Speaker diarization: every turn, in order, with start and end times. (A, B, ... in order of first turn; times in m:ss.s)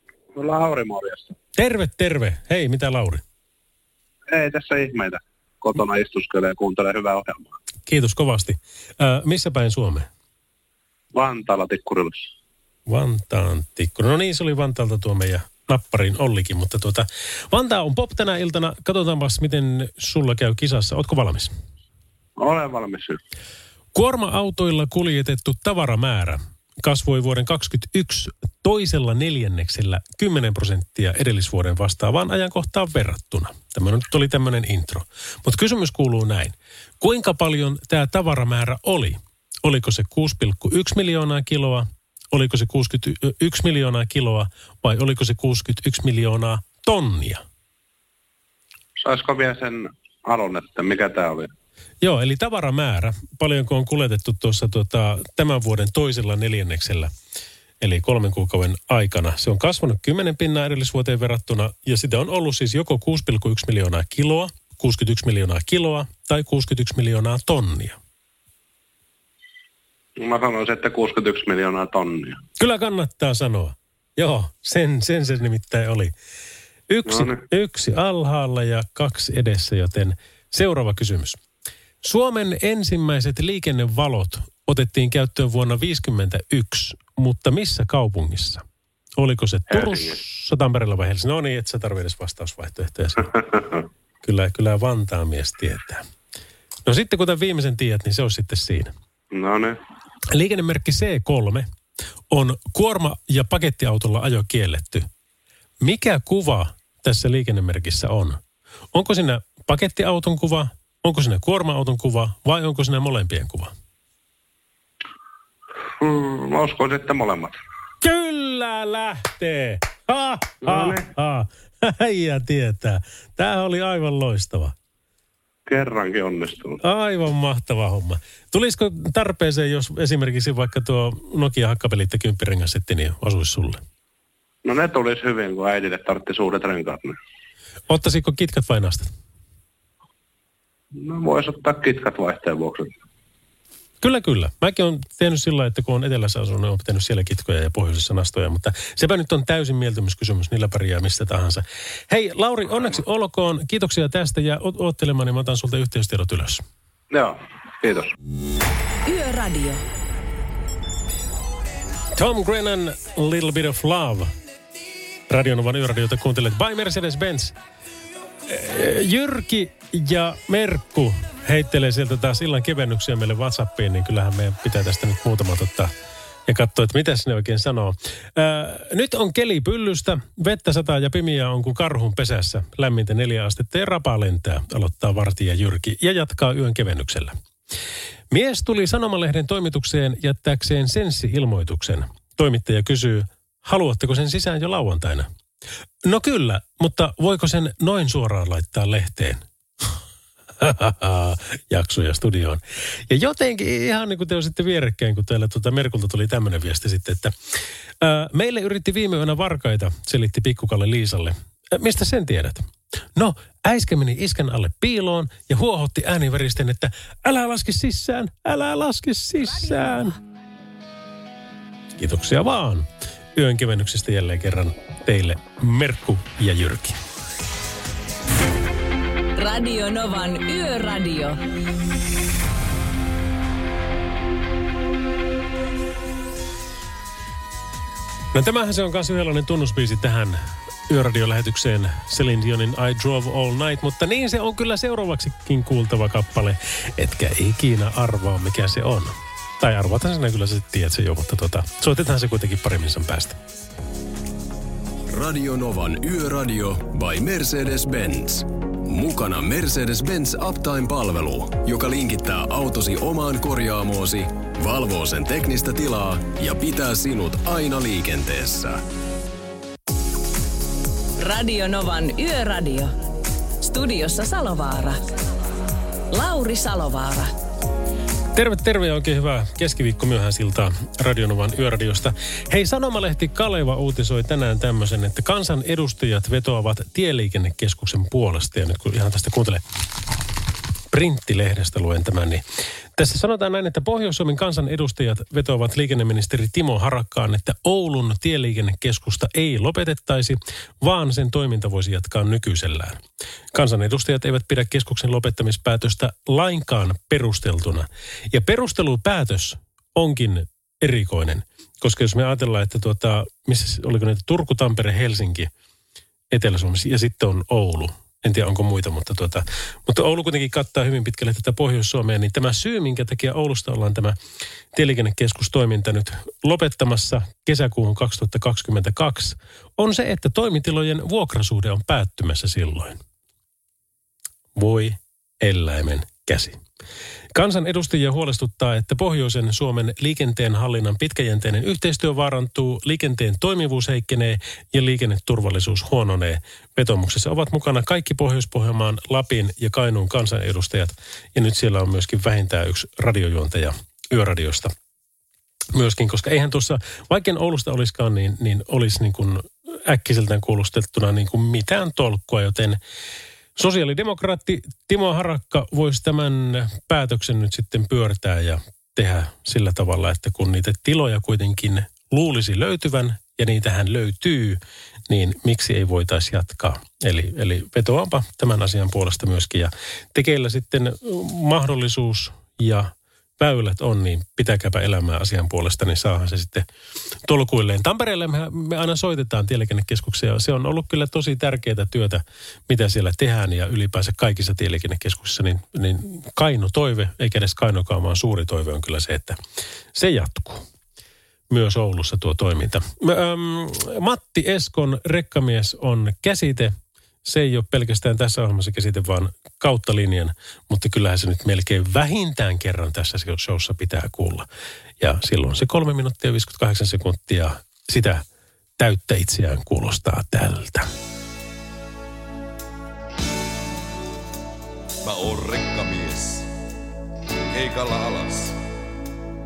0:00.3-0:01.3 A
0:01.6-0:03.2 B
0:04.3-0:07.5 A
0:07.9-0:10.1 B
0:11.1-0:12.3 A
0:12.9-0:21.5 B
0:22.4-0:23.2 A
0:23.9-0:47.4 B
0:49.0-0:51.5 A
0:52.0-0:57.1 B
0:57.8-1:08.0 B
1:10.2-1:12.4 A
1:12.6-1:16.1 B
1:16.9-1:21.4 B
1:17.1-1:17.4 A
1:22.0-1:28.6 B
1:29.2-1:33.4 B
1:34.2-1:36.0 B
1:36.8-1:38.9 B
1:39.3-1:39.8 A
1:40.3-1:41.7 B
1:42.3-1:45.1 B
1:45.8-1:48.4 B
1:48.9-1:53.7 B
1:56.0-1:57.6 A
1:58.0-2:04.8 B
2:00.7-2:01.0 A
2:05.7-2:06.8 A
2:06.8-2:13.8 B
2:14.6-2:17.2 A
2:17.9-2:19.1 B
2:21.0-2:22.9 A
2:24.0-2:36.6 B
2:37.1-2:38.1 A
2:39.1-2:39.8 C
2:42.1-2:44.3 B
2:45.3-2:47.6 B
2:48.5-2:55.9 B
2:56.5-3:07.4 B
3:08.3-3:15.3 B
3:16.0-3:19.9 B
3:20.6-3:27.4 B
3:28.0-3:40.2 B
3:42.0-3:47.0 B
3:49.4-3:51.4 C
3:58.3-4:13.4 B
4:15.1-4:28.8 D
4:31.2-4:32.9 C
4:33.6-4:35.0 C
4:36.1-4:37.3 C
4:38.3-4:49.6 B
4:50.9-4:52.4 B
4:53.0-5:03.0 B
5:03.5-5:15.5 B
5:16.3-5:24.2 B
5:24.7-5:33.0 B
5:34.6-5:36.6 B
5:37.3-5:54.7 B
5:55.7-6:02.8 B
6:03.6-6:26.7 B
6:27.2-6:39.4 B
6:39.9-6:40.7 B
6:41.5-6:54.5 B
6:55.0-6:58.2 B
6:58.8-7:00.9 B
7:05.0-7:06.5 E
7:07.5-7:08.6 E